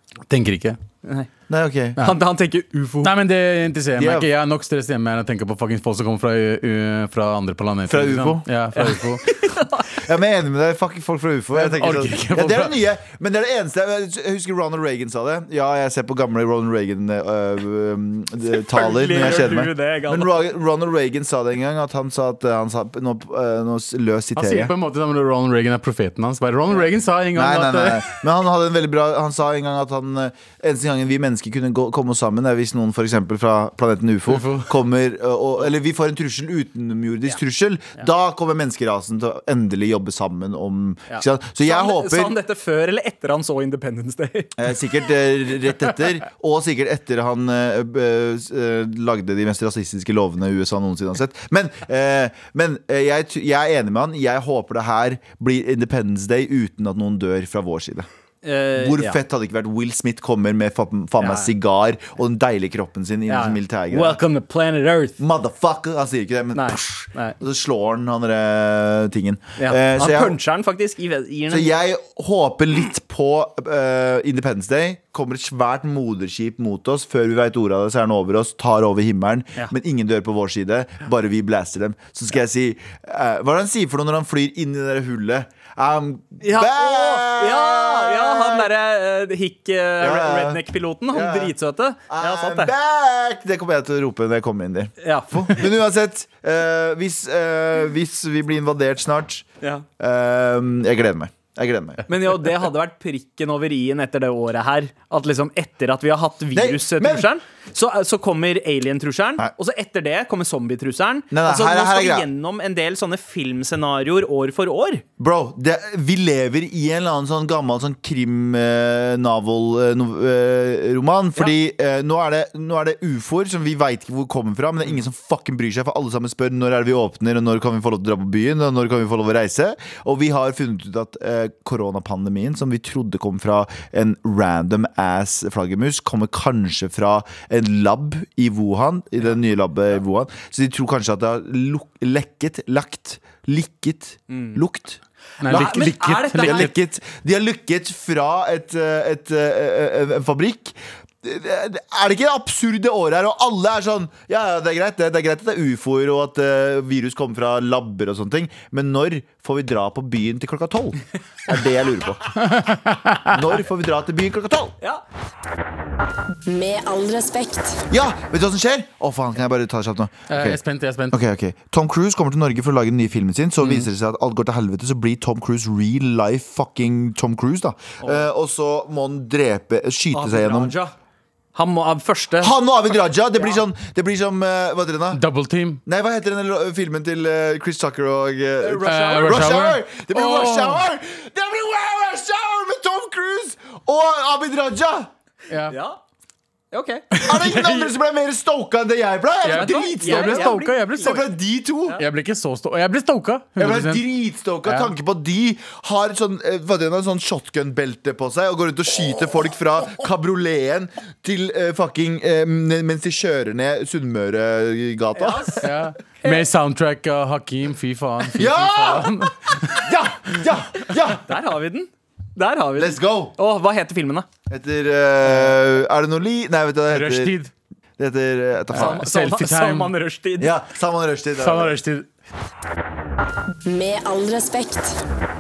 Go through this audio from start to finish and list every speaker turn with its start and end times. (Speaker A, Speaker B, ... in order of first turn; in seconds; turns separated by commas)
Speaker A: 0.3-0.8, Speaker B: 1.0-1.3, Speaker C: 1.5-2.1, Speaker B: 2.0-3.1, Speaker A: 3.0-9.3, Speaker C: 4.0-4.3, Speaker C: 7.9-8.5, Speaker B: 8.8-10.0, Speaker C: 9.9-24.7, Speaker A: 11.6-12.8, Speaker B: 18.5-20.4, Speaker A: 24.4-28.0, Speaker C: 27.3-42.4, Speaker A: 34.3-34.8, Speaker B: 41.1-44.5, Speaker C: 44.6-58.1, Speaker B: 58.4-59.2, Speaker C: 58.8-64.2, Speaker B: 61.2-61.5, Speaker B: 63.3-65.2, Speaker C: 65.2-70.4, Speaker B: 66.5-67.4, Speaker B: 69.6-71.8, Speaker C: 71.5-88.7, Speaker B: 86.4-92.7, Speaker C: 90.0-91.5, Speaker C: 92.1-99.5, Speaker B: 95.0-95.7, Speaker C: 100.0-102.1, Speaker B: 102.1-115.0, Speaker C: 106.5-107.3, Speaker C: 111.3-112.3, Speaker C: 115.2-162.3, Speaker B: 144.3-144.6, Speaker B: 145.4-146.7, Speaker A: 145.4-146.7, Speaker A: 162.4-163.5, Speaker C: 163.3-164.8, Speaker D: 166.5-167.8, Speaker C: 167.9-170.6, Speaker A: 170.3-171.2, Speaker C: 171.1-180.7, Speaker A: 173.6-173.9, Speaker B: 178.0-178.3, Speaker B: 180.1-180.9, Speaker B: 181.6-182.5, Speaker C: 182.4-185.2, Speaker A: 185.1-185.8, Speaker C: 185.9-195.1, Speaker B: 188.6-189.6, Speaker A: 188.8-190.8, Speaker A: 195.5-195.8, Speaker B: 195.7-196.0, Speaker B: 196.7-197.9, Speaker C: 197.2-202.0, Speaker A: 199.4-201.2, Speaker B: 199.5-201.2, Speaker A: 202.0-204.0, Speaker C: 203.6-215.8, Speaker A: 204.7-204.9, Speaker B: 215.2-215.7, Speaker A: 215.6-219.9, Speaker C: 218.3-221.4, Speaker B: 221.2-224.3, Speaker C: 222.8-223.3, Speaker C: 224.5-227.3, Speaker A: 226.9-227.5, Speaker C: 228.0-229.0, Speaker A: 228.7-229.9, Speaker B: 228.7-230.5, Speaker C: 230.4-231.7, Speaker A: 231.4-232.1, Speaker D: 233.7-235.0